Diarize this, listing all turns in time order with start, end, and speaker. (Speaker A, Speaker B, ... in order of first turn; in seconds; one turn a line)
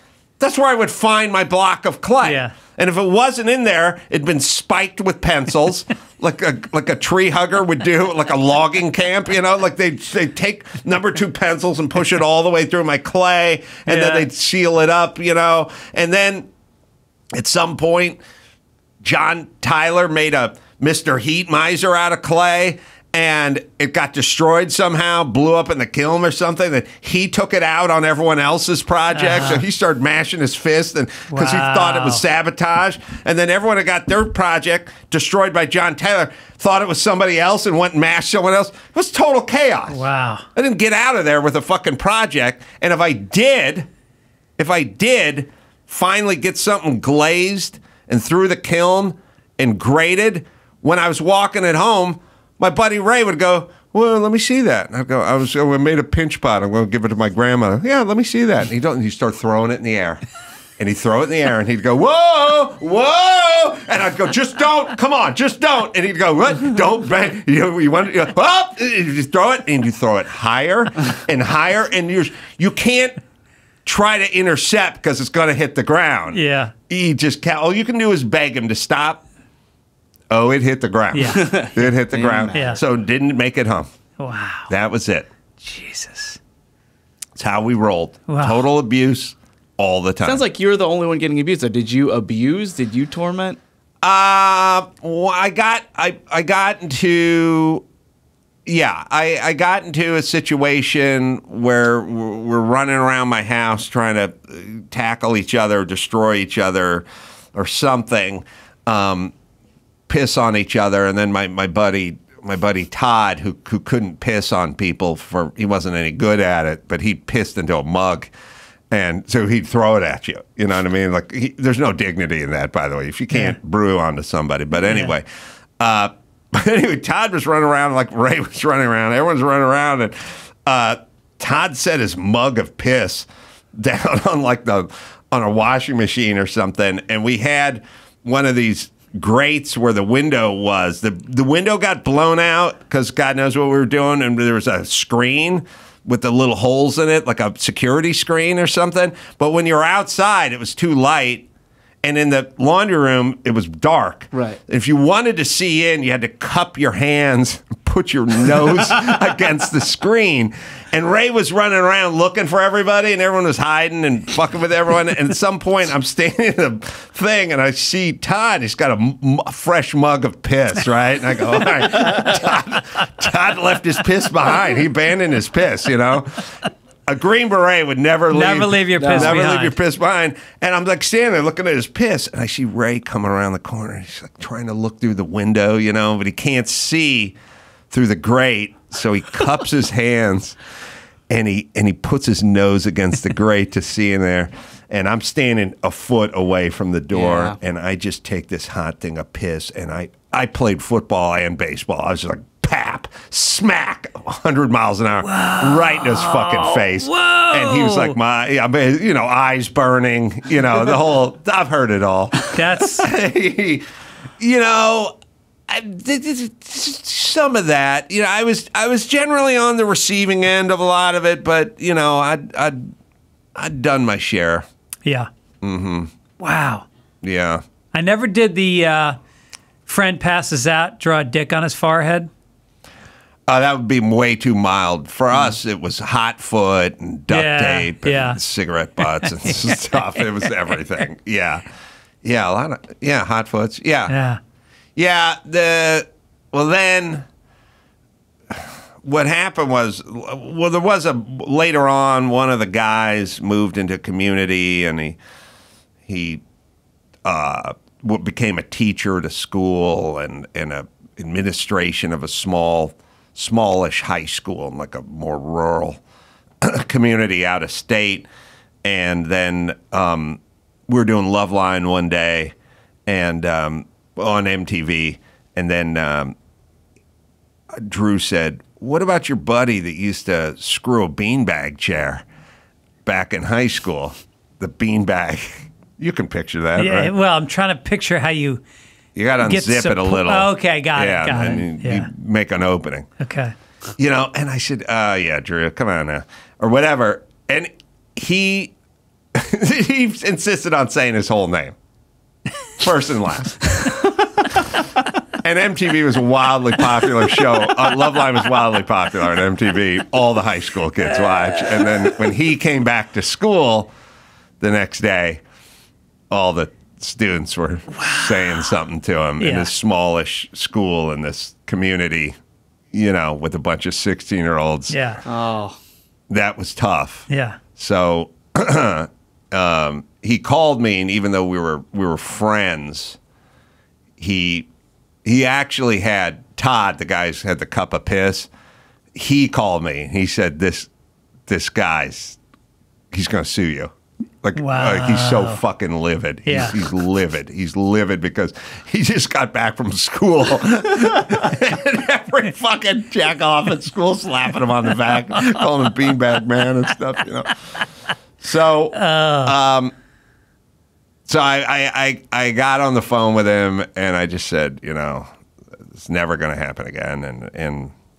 Speaker A: 0.4-16.5
Speaker B: 2.2-2.5
Speaker B: 13.9-14.3
Speaker A: 17.3-18.2
Speaker A: 19.0-40.0
Speaker B: 29.1-29.6
Speaker B: 31.3-32.2
Speaker B: 39.9-40.5
Speaker A: 40.5-43.9
Speaker A: 44.6-60.2
Speaker A: 60.8-73.2
Speaker A: 73.9-79.2
Speaker B: 76.3-76.7
Speaker A: 80.3-83.9
Speaker B: 81.1-81.5
Speaker C: 81.3-82.8
Speaker B: 82.5-82.8
Speaker B: 84.2-84.7
Speaker A: 84.7-85.3
Speaker B: 85.6-86.4
Speaker A: 87.4-90.4
Speaker B: 88.3-88.6
Speaker C: 90.2-93.6
Speaker A: 94.0-97.8
Speaker A: 98.7-109.3
Speaker A: 110.1-118.3
Speaker A: 118.9-125.3
Speaker B: 123.3-123.6
Speaker B: 124.8-125.1
Speaker A: 125.8-151.4
Speaker A: 152.0-176.5
Speaker C: 154.3-154.6
Speaker A: 177.1-187.4
Speaker B: 178.3-179.8
Speaker C: 179.0-179.4
Speaker A: 187.9-190.6
Speaker A: 191.3-213.8
Speaker C: 197.1-197.6
Speaker B: 205.2-208.1
Speaker B: 212.5-213.1
Speaker A: 214.4-215.2
Speaker A: 215.7-222.8
Speaker A: 223.6-224.6
Speaker A: 225.6-226.1
Speaker B: 226.4-226.9
Speaker A: 227.2-227.6
Speaker B: 227.9-229.2
Speaker B: 229.9-232.3
Speaker A: 233.5-241.7
Speaker B: 237.3-238.4
Speaker B: 239.2-240.2
Speaker A: 242.2-244.1
Speaker B: 244.1-244.4
Speaker A: 244.9-247.2
Speaker A: 248.5-255.2
Speaker A: 256.1-256.4
Speaker A: 257.2-266.0
Speaker A: 266.6-268.3
Speaker A: 268.8-272.5
Speaker A: 273.1-276.3
Speaker A: 277.8-282.2
Speaker A: 283.1-287.1
Speaker B: 286.8-288.6
Speaker A: 289.1-293.1
Speaker B: 289.4-292.1
Speaker B: 293.2-293.5
Speaker A: 294.0-298.7
Speaker A: 299.4-301.8
Speaker A: 302.8-303.8
Speaker A: 305.3-313.9
Speaker A: 314.6-315.4
Speaker A: 316.3-322.4
Speaker B: 318.0-318.6
Speaker B: 319.4-319.7
Speaker A: 322.9-324.9
Speaker B: 324.9-325.2
Speaker C: 325.3-325.8
Speaker A: 326.3-333.2
Speaker B: 327.3-327.6
Speaker A: 334.2-334.7
Speaker A: 335.2-338.5
Speaker A: 339.1-340.9
Speaker A: 341.5-342.4
Speaker A: 343.1-343.9
Speaker A: 344.4-357.7
Speaker B: 344.6-345.6
Speaker B: 346.4-346.8
Speaker A: 358.4-359.9
Speaker B: 358.9-359.5
Speaker A: 361.3-365.3
Speaker A: 365.9-367.9